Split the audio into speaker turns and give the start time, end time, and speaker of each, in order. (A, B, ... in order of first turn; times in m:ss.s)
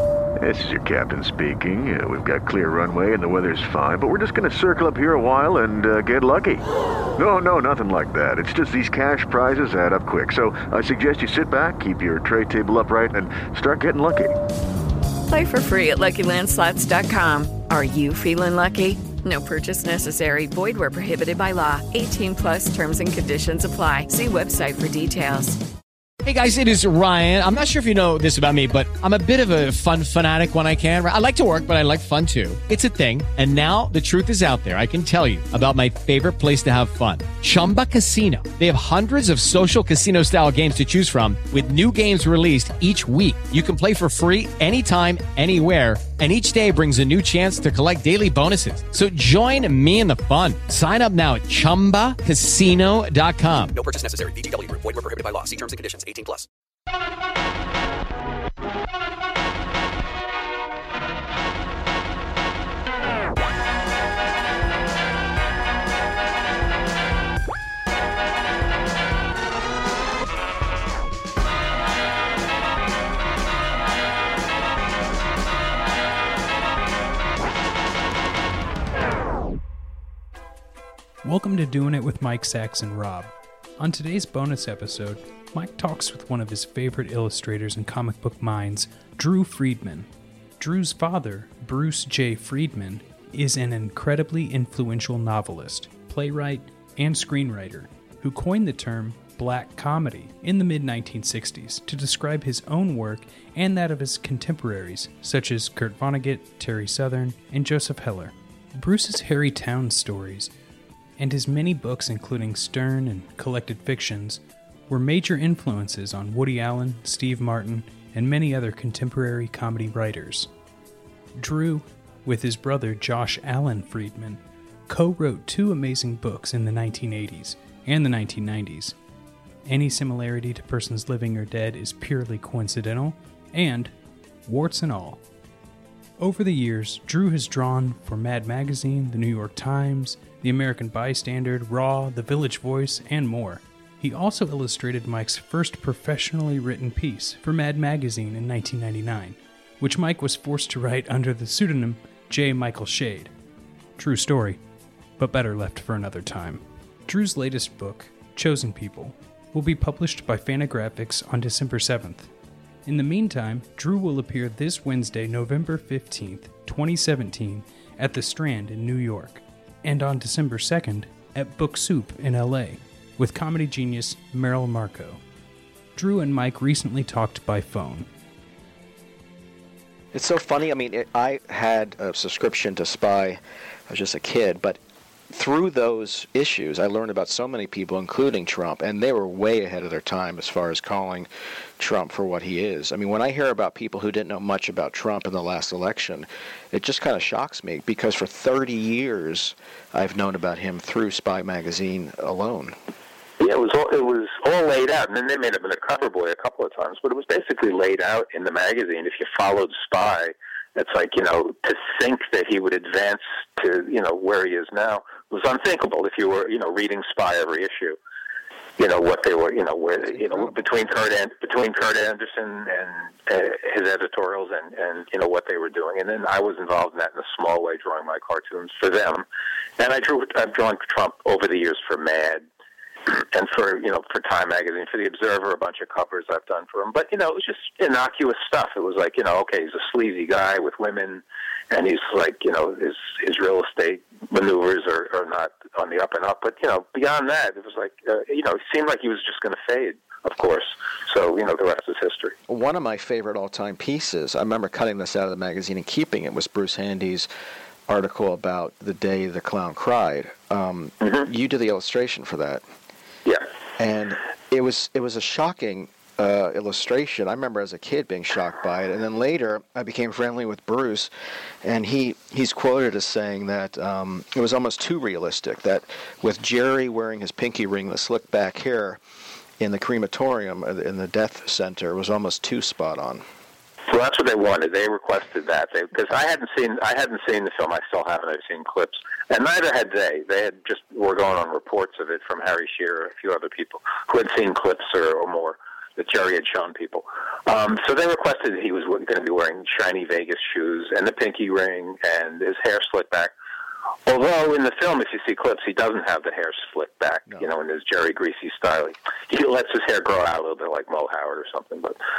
0:00.4-0:06.7 A
0:07.2-0:14.4 A
0:15.3-0:25.6 B
0:26.2-0:53.7 C
0:53.7-0:56.5 D
1:21.2-1:30.1 E
1:30.6-1:50.5 E
1:51.2-2:00.5 E
2:01.4-2:09.0 E
2:09.6-2:13.9 E
2:14.5-2:15.2 E
2:16.2-2:33.3 E
2:34.0-2:34.6 E
2:35.2-2:42.3 E
2:42.9-2:55.2 E
2:56.0-2:58.1 E
3:00.1-3:04.8 F
3:05.3-3:22.8 F
3:23.4-3:38.0 G
3:38.8-3:49.3 G
3:40.0-3:40.7 F
3:49.8-3:52.4 G
3:53.1-4:12.4 G
4:12.5-4:17.3 F
4:17.9-4:22.6 F
4:21.0-4:21.3 G
4:23.8-4:31.1 F
4:31.6-4:39.0 F
4:39.6-4:43.2 F
4:43.9-5:03.3 G
5:04.1-5:12.0 G